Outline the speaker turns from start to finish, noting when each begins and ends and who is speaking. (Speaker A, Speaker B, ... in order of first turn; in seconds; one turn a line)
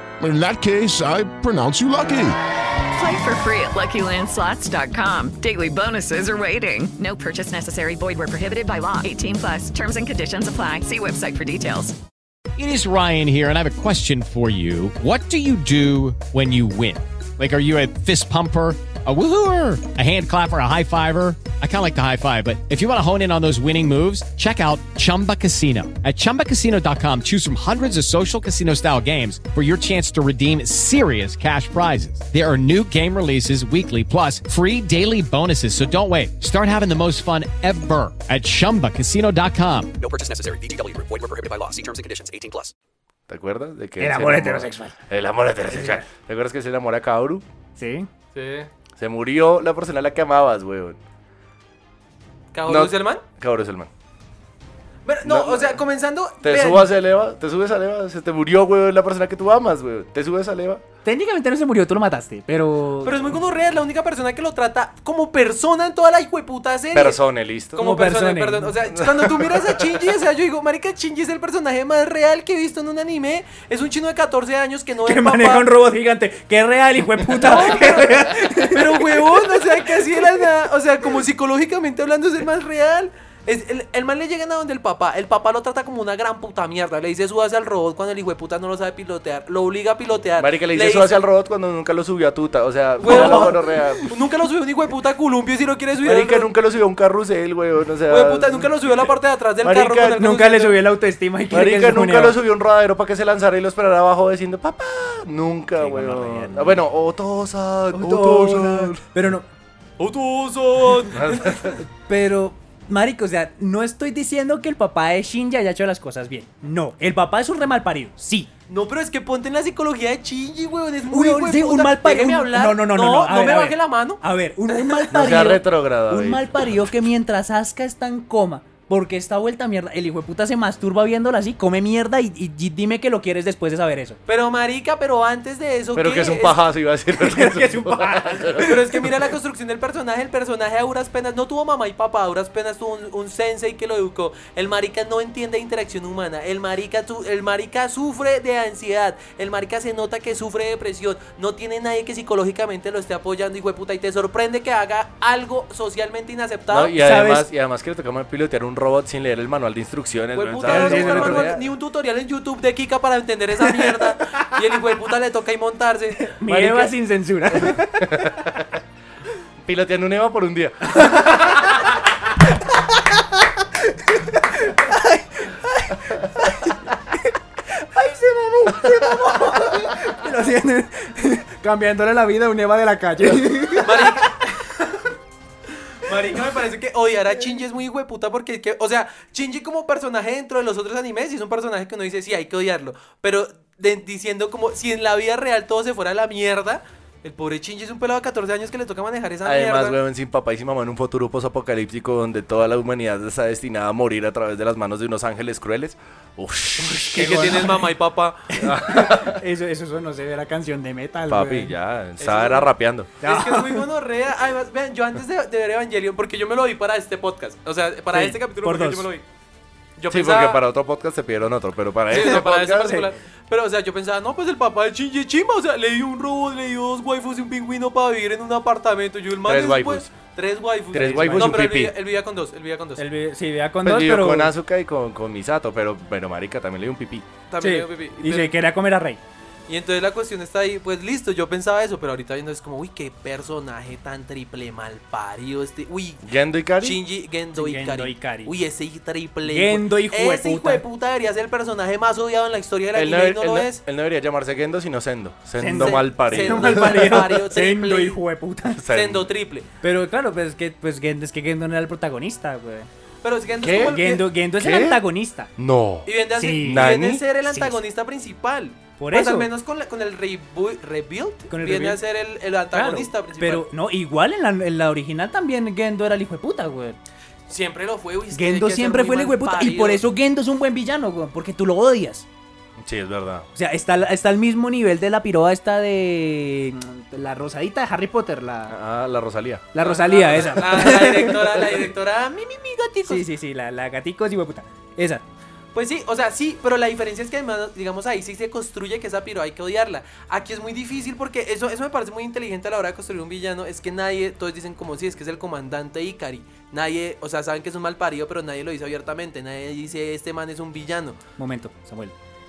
Speaker A: 0.2-2.4
Speaker B: 3.0-12.0
Speaker C: 12.6-39.9
Speaker D: 40.0-42.7
Speaker E: 43.3-47.5
Speaker F: 44.0-44.9
Speaker F: 45.7-46.0
Speaker F: 47.8-48.1
Speaker G: 48.4-48.7
Speaker E: 49.0-51.0
Speaker G: 52.5-53.2
Speaker E: 52.7-53.9
Speaker G: 55.0-56.9
Speaker E: 55.2-55.8
Speaker E: 56.4-60.8
Speaker F: 61.0-63.2
Speaker G: 63.0-67.2
Speaker E: 66.9-67.8
Speaker G: 67.7-75.7
Speaker F: 67.8-68.7
Speaker E: 68.8-69.9
Speaker F: 75.0-79.4
Speaker G: 77.4-91.1
Speaker E: 90.4-94.1
Speaker G: 93.0-96.5
Speaker F: 93.1-94.0
Speaker E: 96.0-98.7
Speaker G: 98.1-100.8
Speaker E: 99.6-100.2
Speaker F: 100.2-102.4
Speaker E: 101.5-109.0
Speaker F: 105.8-106.8
Speaker F: 107.9-109.5
Speaker G: 110.0-111.8
Speaker E: 111.1-111.8
Speaker F: 112.1-118.5
Speaker G: 118.7-125.1
Speaker F: 121.1-134.2
Speaker E: 125.1-126.7
Speaker G: 134.3-136.6
Speaker E: 135.9-138.9
Speaker F: 137.2-139.1
Speaker G: 138.6-156.9
Speaker E: 156.7-161.6
Speaker F: 157.0-157.5
Speaker G: 160.3-166.3
Speaker F: 160.7-161.5
Speaker F: 163.7-164.4
Speaker F: 166.3-168.3
Speaker E: 166.5-166.9
Speaker E: 167.6-168.8
Speaker E: 169.6-171.4
Speaker F: 170.9-171.6
Speaker F: 173.8-184.3
Speaker G: 183.8-184.4
Speaker G: 186.0-200.0
Speaker E: 199.4-207.7
Speaker F: 206.9-207.9
Speaker G: 207.2-208.4
Speaker F: 208.5-211.7
Speaker E: 208.6-209.4
Speaker E: 211.3-213.1
Speaker G: 212.2-219.2
Speaker F: 213.2-213.8
Speaker F: 218.1-219.1
Speaker G: 220.0-220.6
Speaker E: 220.1-223.1
Speaker G: 222.1-233.0
Speaker E: 229.4-230.1
Speaker E: 230.9-231.9
Speaker F: 231.0-231.6
Speaker F: 233.0-234.5
Speaker E: 233.8-237.3
Speaker G: 237.5-238.6
Speaker F: 237.6-239.2
Speaker G: 239.7-246.3
Speaker E: 246.2-247.0
Speaker G: 246.8-253.8
Speaker F: 247.6-248.5
Speaker F: 249.4-250.8
Speaker E: 252.9-257.3
Speaker F: 255.6-258.8
Speaker G: 255.7-258.2
Speaker E: 258.8-259.3
Speaker G: 258.9-259.7
Speaker F: 259.8-262.9
Speaker G: 263.2-264.3
Speaker E: 263.6-264.0
Speaker F: 263.6-265.5
Speaker E: 264.5-265.0
Speaker E: 265.6-267.2
Speaker G: 266.1-273.7
Speaker F: 266.4-266.9
Speaker F: 267.5-267.8
Speaker F: 269.0-269.5
Speaker F: 271.5-272.0
Speaker F: 272.7-277.0
Speaker G: 277.5-280.0
Speaker F: 278.3-282.3
Speaker E: 282.8-283.5
Speaker F: 283.6-288.8
Speaker E: 288.7-289.7
Speaker F: 289.7-291.8
Speaker G: 289.8-293.3
Speaker F: 293.0-295.2
Speaker G: 295.7-311.2
Speaker F: 311.4-312.1